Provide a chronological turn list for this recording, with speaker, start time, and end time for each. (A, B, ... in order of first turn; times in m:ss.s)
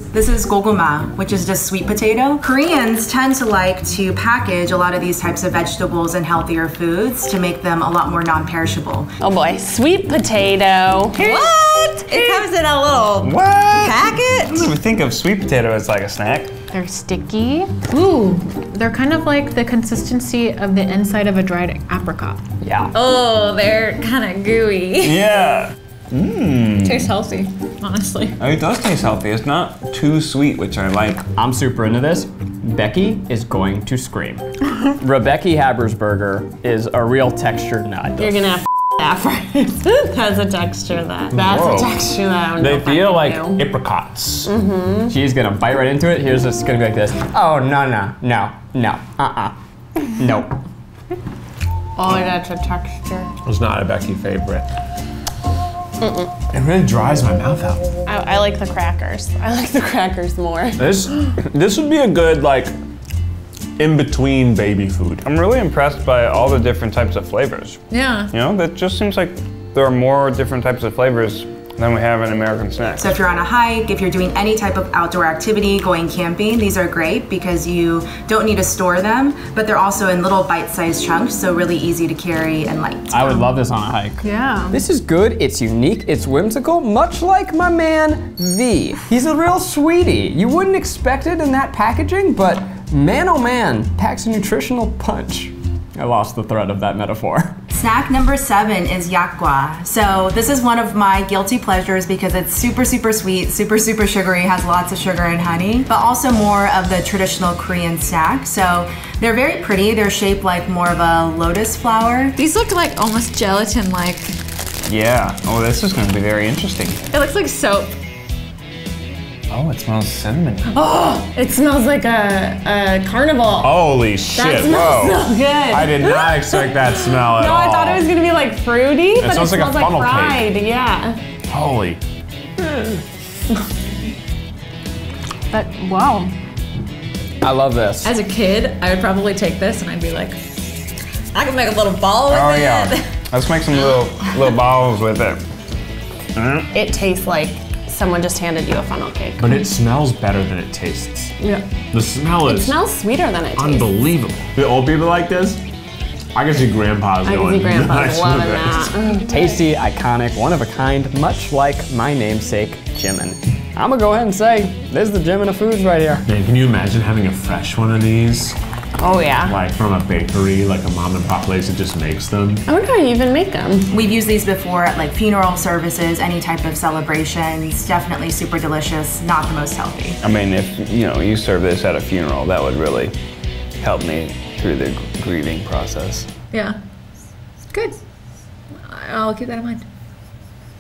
0:00.1-0:09.1 A
0:09.2-0:11.1 B
0:11.2-0:14.7 C
0:11.2-0:11.5 D
0:13.2-0:16.5 E
0:16.7-0:22.4 D
0:22.6-0:22.9 F
0:22.9-0:25.3 C
0:25.0-0:27.1 E
0:26.8-0:28.4 C
0:28.4-0:31.2 E
0:31.4-0:38.4 F
0:38.2-0:43.7 B
0:41.3-0:44.5 G
0:44.4-0:45.1 B
0:45.1-0:49.6 F
0:50.1-0:50.5 F
0:52.0-0:53.3 B
0:53.4-0:54.7 G
0:56.0-0:56.3 B
0:56.5-0:57.9 G
0:58.0-1:00.9 B
1:00.8-1:02.7 G
1:03.8-1:05.3 G
1:05.2-1:13.1 E
1:07.9-1:08.3 C
1:13.0-1:23.4 A
1:23.1-1:37.6 F
1:24.2-1:24.8 D
1:37.7-1:52.4 A
1:52.4-1:54.3 C
1:54.9-1:57.0 E
1:57.1-1:57.9 C
1:59.5-2:00.7 E
2:00.7-2:03.8 B
2:03.6-2:08.1 G
2:04.3-2:11.2 B
2:09.2-2:10.6 G
2:11.5-2:12.0 G
2:15.5-2:16.3 D
2:17.4-2:18.1 F
2:18.0-2:20.4 C
2:21.3-2:23.1 C
2:22.3-2:25.4 E
2:23.9-2:24.4 C
2:26.4-2:26.7 E
2:26.7-2:29.7 B
2:29.4-2:31.3 G
2:31.4-2:31.8 B
2:31.9-2:32.9 G
2:32.3-2:34.0 B
2:33.6-2:35.6 G
2:36.4-2:39.0 G
2:37.2-2:39.3 B
2:39.3-2:46.2 F
2:46.3-2:48.6 G
2:49.0-2:49.6 B
2:49.4-2:52.6 G
2:52.7-2:53.9 B
2:53.9-3:00.2 A
3:00.2-3:03.2 E
3:03.8-3:06.3 E
3:08.8-3:09.8 C